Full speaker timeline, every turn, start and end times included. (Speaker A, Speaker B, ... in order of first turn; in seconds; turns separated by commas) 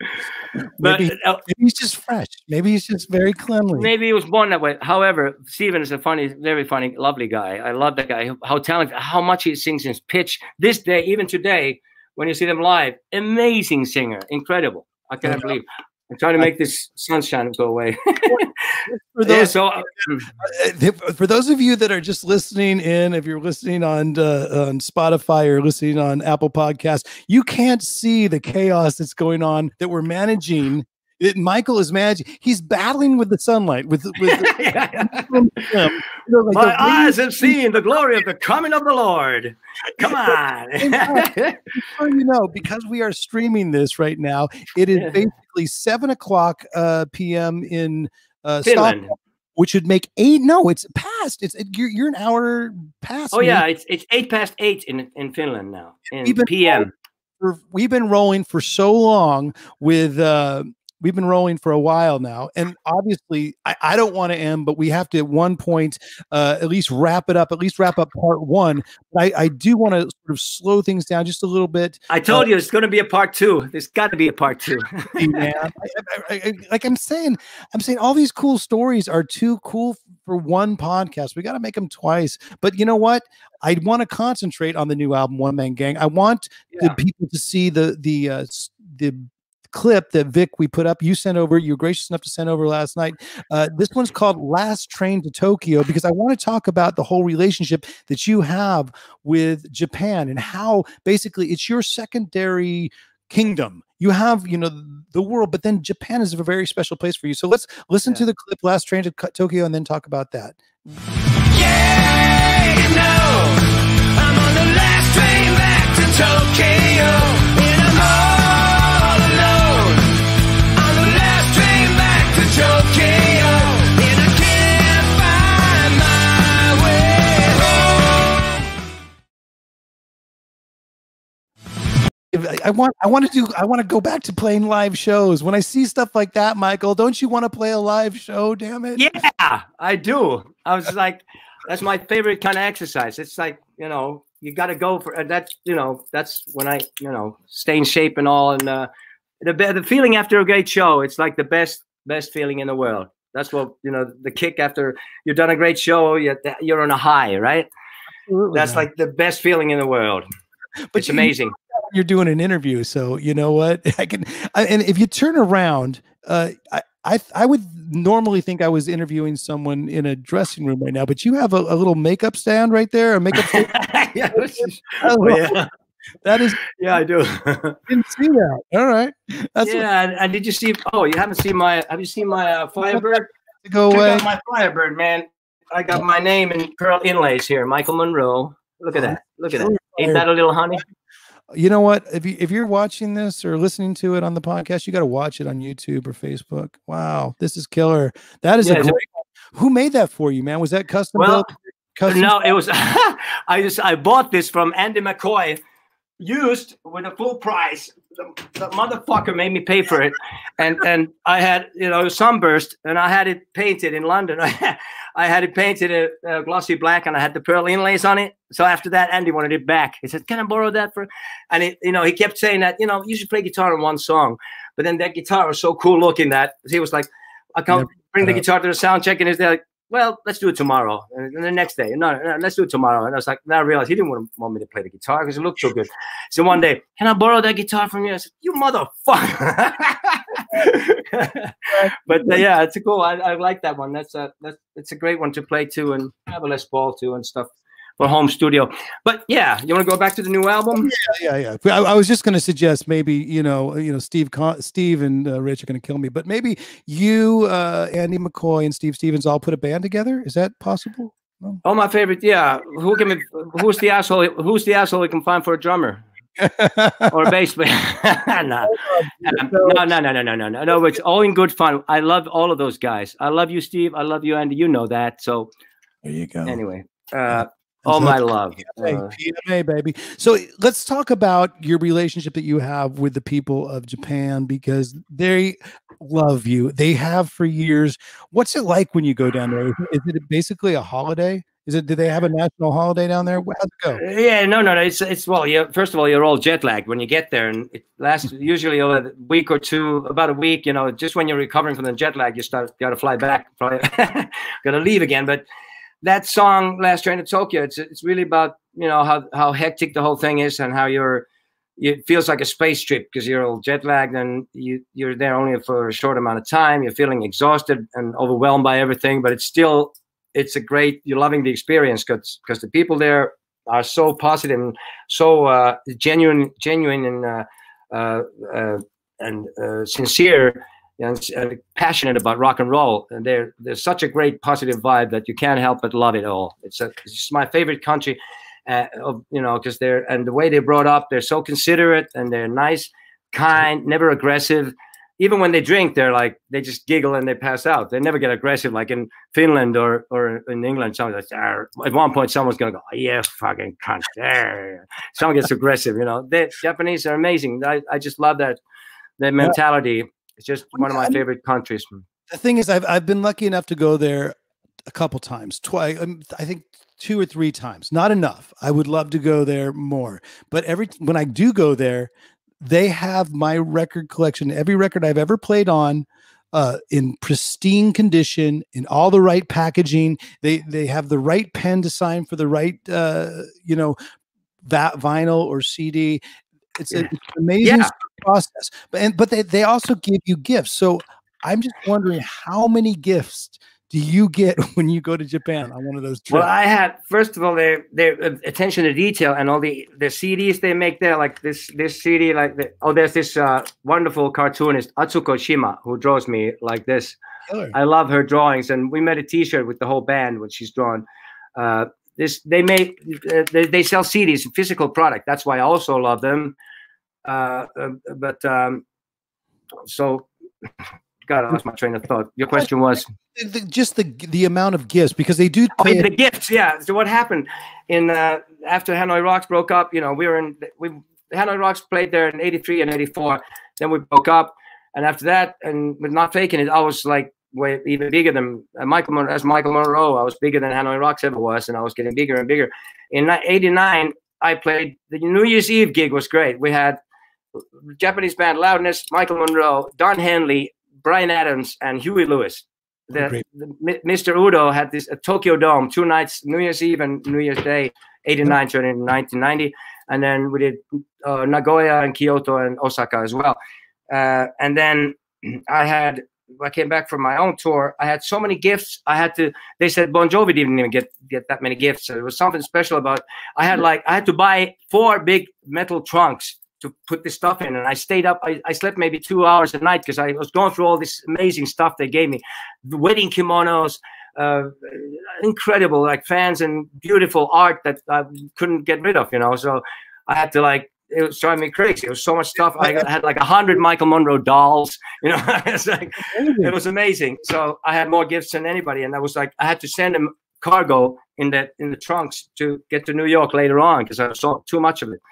Speaker A: 0.8-3.9, Speaker B: 0.8-1.4, Speaker B: 3.7-20.2, Speaker A: 15.2-15.5, Speaker A: 18.3-19.5, Speaker A: 20.4-37.6, Speaker B: 34.2-35.3, Speaker B: 36.5-41.6, Speaker A: 40.0-53.6, Speaker B: 48.6-49.1, Speaker B: 53.3-56.9, Speaker A: 56.1-56.9, Speaker A: 57.4-72.5, Speaker B: 72.1-75.4, Speaker A: 75.2-110.6, Speaker B: 86.7-87.0, Speaker B: 111.5-120.2, Speaker B: 120.8-128.4, Speaker A: 132.3-139.0, Speaker B: 138.9-148.9, Speaker B: 149.4-157.7, Speaker A: 158.3-158.8, Speaker B: 158.5-160.2, Speaker A: 160.9-173.7, Speaker B: 160.9-161.5, Speaker B: 173.3-175.7, Speaker A: 174.3-175.6, Speaker A: 176.2-176.6, Speaker B: 176.7-177.8, Speaker A: 177.9-179.8, Speaker B: 179.6-183.3, Speaker A: 182.9-184.2, Speaker B: 183.9-190.8, Speaker A: 188.9-190.2, Speaker A: 191.5-202.5, Speaker B: 198.6-199.0, Speaker B: 201.2-201.4, Speaker B: 202.1-205.6, Speaker B: 206.2-250.9, Speaker A: 227.7-228.4, Speaker A: 241.7-242.4, Speaker A: 250.8-261.6, Speaker B: 261.6-266.0, Speaker A: 266.4-267.3, Speaker B: 267.1-275.5, Speaker A: 268.6-269.8, Speaker A: 276.0-276.6, Speaker B: 276.4-279.1, Speaker A: 277.3-294.0, Speaker B: 294.0-305.4, Speaker B: 306.0-311.2, Speaker B: 311.8-358.6, Speaker B: 359.2-362.0, Speaker A: 360.7-361.2, Speaker A: 362.3-364.3, Speaker A: 364.9-384.0, Speaker A: 384.6-386.2, Speaker A: 386.8-396.5, Speaker B: 387.6-387.9, Speaker B: 396.3-407.2, Speaker A: 407.5-407.7, Speaker B: 407.7-411.0, Speaker B: 411.6-416.6, Speaker B: 417.2-418.8, Speaker B: 419.9-420.3, Speaker B: 421.2-423.1, Speaker A: 423.3-426.1, Speaker B: 425.8-447.0, Speaker B: 448.0-463.6, Speaker A: 453.1-453.4, Speaker B: 464.1-505.2, Speaker A: 496.2-496.7